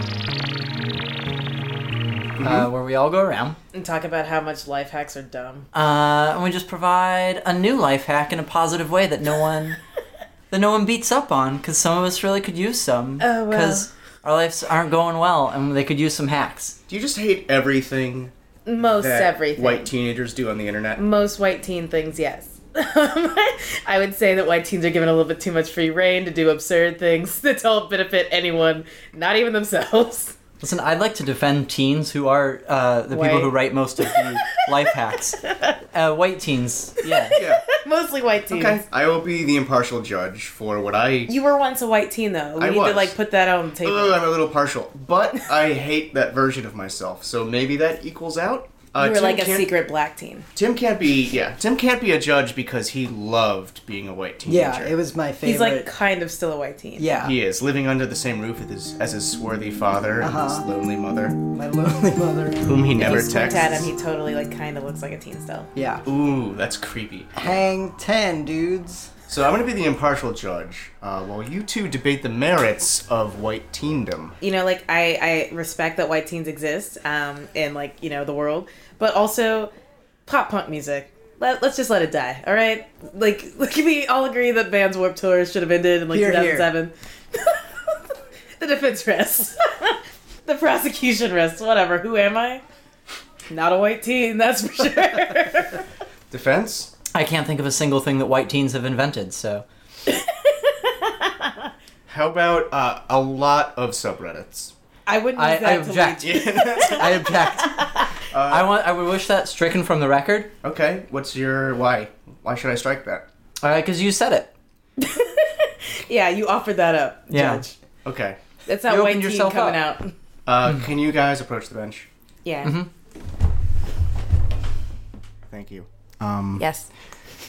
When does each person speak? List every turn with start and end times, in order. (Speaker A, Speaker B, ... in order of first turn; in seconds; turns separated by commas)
Speaker A: 2.4-2.7, Speaker B: 2.4-3.6, Speaker C: 3.7-5.7, Speaker B: 5.7-9.8, Speaker B: 10.5-16.8, Speaker C: 13.2-13.9, Speaker A: 16.9-21.0, Speaker C: 18.6-19.9, Speaker C: 20.9-30.4, Speaker B: 30.6-35.4, Speaker C: 33.1-34.2, Speaker C: 35.4-35.8, Speaker B: 35.9-37.4, Speaker C: 37.0-38.8, Speaker A: 37.3-37.6, Speaker A: 38.5-41.3, Speaker C: 41.3-44.3, Speaker A: 42.6-43.1, Speaker A: 43.8-49.7, Speaker C: 49.0-50.5, Speaker A: 50.5-54.9, Speaker D: 54.4-55.9, Speaker C: 55.4-57.1, Speaker D: 57.0-57.4, Speaker A: 57.2-61.4, Speaker D: 60.2-60.6, Speaker D: 61.4-63.9, Speaker A: 62.6-63.9, Speaker C: 63.0-65.7, Speaker D: 65.7-66.0, Speaker A: 66.0-67.5, Speaker D: 67.3-69.1, Speaker A: 69.3-74.3, Speaker C: 74.4-79.7, Speaker C: 80.2-88.0, Speaker D: 86.1-86.7, Speaker C: 88.6-92.6, Speaker C: 93.5-95.8, Speaker A: 96.3-96.9, Speaker B: 97.1-99.6, Speaker C: 100.1-101.5, Speaker A: 102.1-104.7, Speaker C: 105.1-108.0, Speaker B: 105.3-107.8, Speaker A: 106.2-107.3, Speaker A: 108.3-108.8, Speaker B: 108.5-110.5, Speaker A: 110.6-113.3, Speaker B: 113.6-114.5, Speaker C: 115.0-117.7, Speaker B: 117.3-117.6, Speaker A: 118.0-118.4, Speaker C: 118.7-120.1, Speaker B: 118.9-119.8, Speaker A: 120.5-122.1, Speaker C: 122.4-122.8, Speaker B: 122.6-122.9, Speaker A: 125.5-126.7, Speaker C: 126.6-126.9